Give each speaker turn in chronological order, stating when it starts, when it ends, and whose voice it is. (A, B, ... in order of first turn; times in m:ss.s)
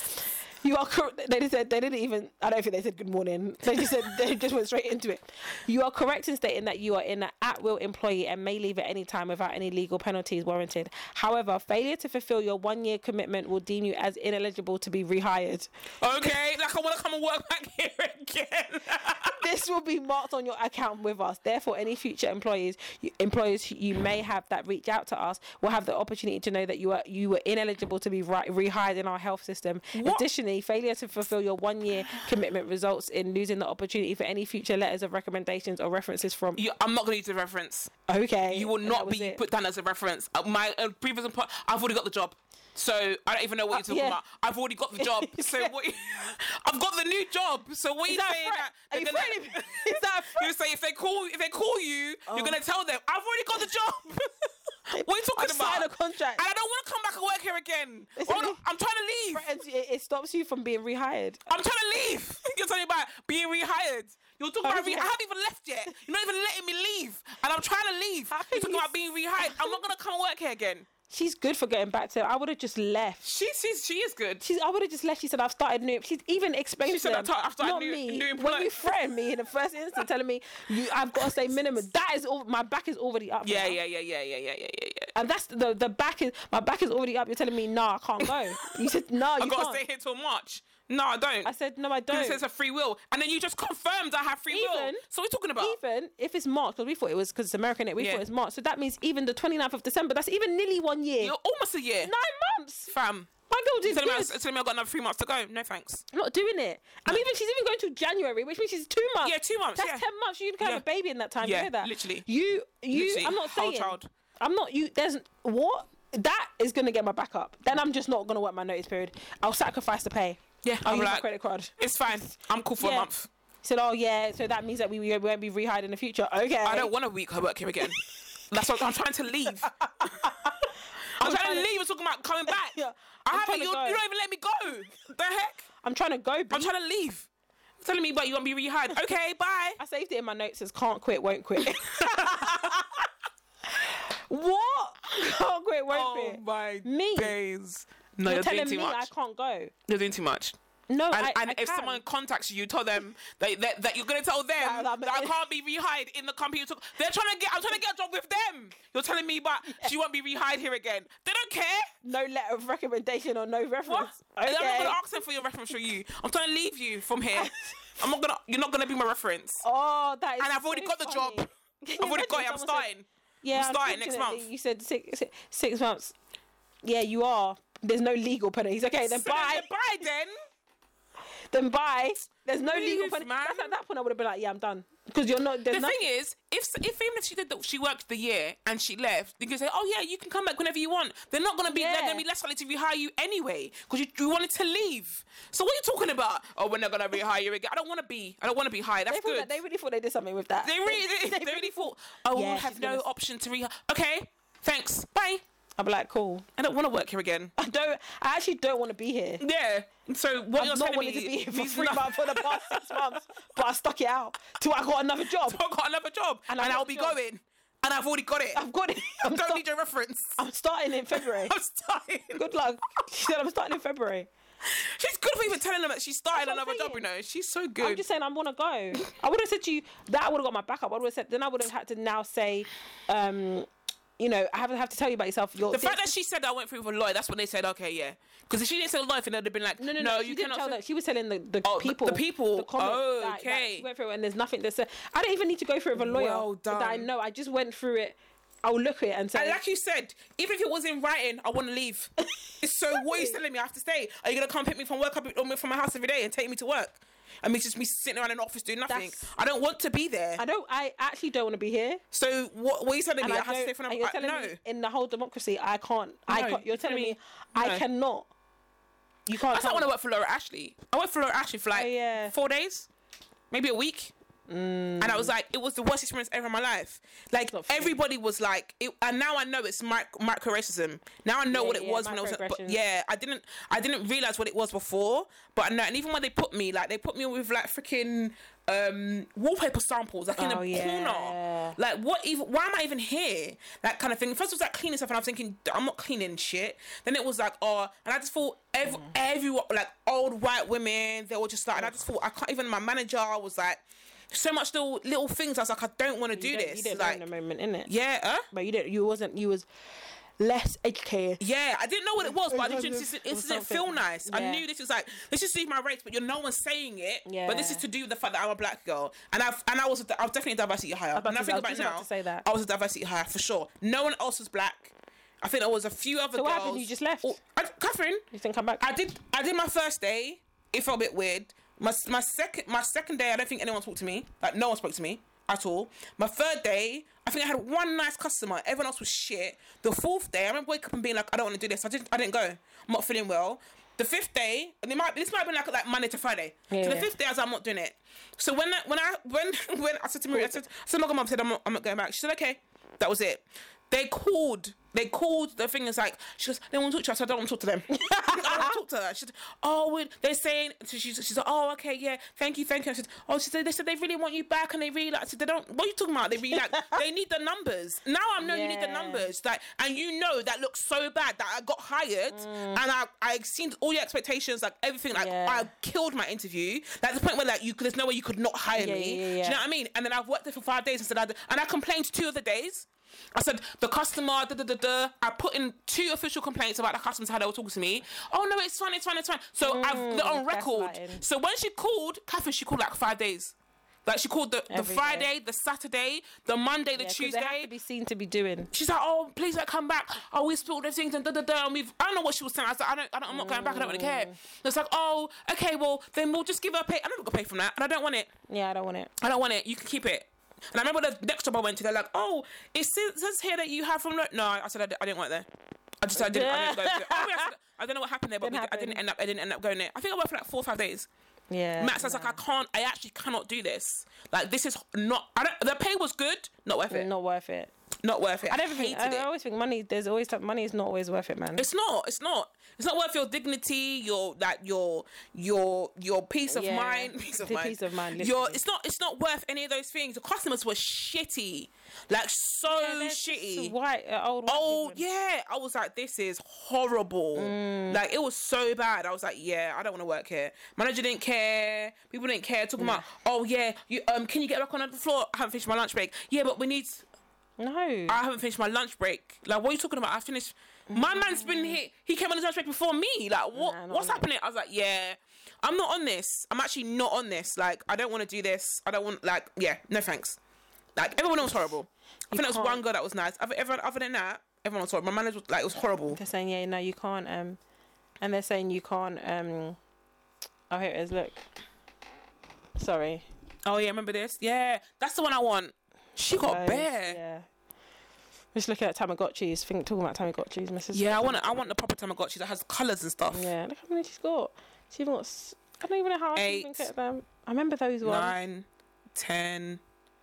0:00.6-0:15.7 A
0:16.0-0:19.4 B
0:19.4-0:36.6 A
0:29.9-0:30.2 B
0:36.6-0:37.9 B
0:38.1-0:39.4 A
0:38.5-0:59.5 B
0:43.7-0:44.2 A
0:45.0-0:45.7 A
0:48.1-0:50.5 A
0:52.3-0:52.6 A
0:54.9-0:56.4 A
0:58.2-0:58.6 A
0:59.3-1:01.4 A
1:01.5-1:10.9 B
1:04.6-1:05.1 A
1:08.3-1:09.8 A
1:11.1-1:13.2 A
1:13.2-1:14.4 B
1:14.4-1:23.8 A
1:16.8-1:18.9 B
1:23.4-1:25.1 B
1:25.1-1:29.8 A
1:28.2-1:31.5 B
1:31.4-1:32.4 A
1:32.1-1:35.8 B
1:34.5-1:35.0 A
1:35.6-1:41.3 A
1:38.0-1:38.2 B
1:41.2-1:42.1 B
1:42.0-1:42.9 A
1:42.9-1:43.3 B
1:43.5-1:44.4 A
1:43.8-1:46.0 B
1:46.1-2:03.1 A
1:49.2-1:50.1 B
1:51.4-1:52.2 B
1:52.9-1:54.1 B
2:00.6-2:03.3 B
2:03.6-2:06.9 A
2:06.6-2:10.3 B
2:09.8-2:11.7 A
2:11.2-2:15.6 B
2:12.5-2:14.0 A
2:15.8-2:16.7 A
2:16.5-2:17.3 B
2:17.8-2:19.8 B
2:19.8-2:23.0 A
2:21.6-2:22.8 B
2:23.7-2:27.4 A
2:25.9-2:29.1 B
2:28.2-2:29.7 A
2:29.9-2:30.6 B
2:30.9-2:32.0 A
2:31.1-2:41.9 B
2:34.6-2:35.4 A
2:42.0-2:45.0 A
2:43.9-2:49.6 B
2:47.3-2:48.0 A
2:49.6-2:52.9 A
2:50.4-2:51.4 B
2:52.0-2:54.4 B
2:53.4-2:56.1 A
2:56.8-2:59.7 A
2:59.0-3:00.3 B
3:01.5-3:06.0 A
3:02.6-3:03.7 B
3:05.7-3:19.5 B
3:11.7-3:12.2 A
3:19.1-3:23.0 A
3:20.6-3:25.4 B
3:25.8-3:26.4 A
3:26.6-3:27.5 B
3:27.6-3:29.4 A
3:29.4-3:33.1 B
3:30.6-3:35.6 A
3:35.3-3:38.6 B
3:36.5-3:37.2 A
3:38.5-3:39.6 A
3:39.1-3:40.4 B
3:40.4-3:41.5 A
3:41.1-3:42.4 B
3:42.3-3:44.3 A
3:44.6-3:48.0 B
3:46.3-3:47.0 A
3:47.8-3:53.7 A
3:54.2-3:56.1 A
3:55.7-4:00.8 B
3:59.8-4:09.6 A
4:01.6-4:03.9 B
4:05.9-4:07.1 B
4:09.3-4:20.4 B
4:12.9-4:13.4 A
4:18.9-4:19.3 A
4:20.4-4:22.0 A
4:22.1-4:24.6 B
4:23.2-4:28.3 A
4:26.3-4:27.8 B
4:29.3-4:29.9 A
4:29.3-4:32.9 B
4:31.7-4:32.3 A
4:33.5-4:34.1 B
4:34.5-4:35.3 A
4:35.0-5:07.2 B
4:37.5-4:38.0 A
4:41.5-4:42.8 A
4:50.4-4:51.8 A
5:06.3-5:07.9 A
5:07.8-5:08.5 B
5:08.5-5:09.7 A
5:10.4-5:11.4 A
5:11.4-5:28.2 B
5:12.2-5:14.6 A
5:17.2-5:17.8 A
5:21.1-5:22.4 A
5:26.3-5:27.4 A
5:28.3-5:28.8 A
5:28.8-6:33.5 B
5:46.7-5:47.1 A
5:57.9-5:58.8 A
6:06.5-6:07.0 A
6:08.4-6:09.3 A
6:12.3-6:12.8 A
6:15.1-6:15.7 A
6:18.7-6:19.6 A
6:29.6-6:31.2 A
6:34.0-6:37.7 B
6:34.7-6:35.3 A
6:37.0-6:38.7 A
6:38.7-6:48.3 B
6:43.3-6:44.4 A
6:48.5-6:49.1 A
6:49.2-6:55.5 B
6:56.0-7:01.1 B
6:56.1-6:57.5 A
6:58.4-6:59.0 A
7:01.5-7:02.4 A
7:01.8-7:07.1 B
7:06.9-7:07.7 A
7:08.0-7:09.2 B
7:08.5-7:11.6 A
7:11.6-7:23.7 B
7:16.5-7:18.6 A
7:22.7-7:25.0 A
7:24.5-7:37.0 B
7:27.3-7:28.0 A
7:32.8-7:33.0 A
7:37.6-7:38.2 A
7:38.1-7:50.4 B
7:40.9-7:41.8 A
7:43.5-7:44.2 A
7:50.9-7:56.2 B
7:52.3-7:52.8 A
7:56.1-7:57.6 A
7:58.2-7:59.8 A
8:00.7-8:01.4 A
8:02.8-8:03.2 A
8:03.6-8:07.2 B
8:06.3-8:07.4 A
8:08.5-8:11.6 A
8:10.9-8:13.5 B
8:13.3-8:18.4 A
8:16.4-8:16.9 B
8:18.0-8:19.8 B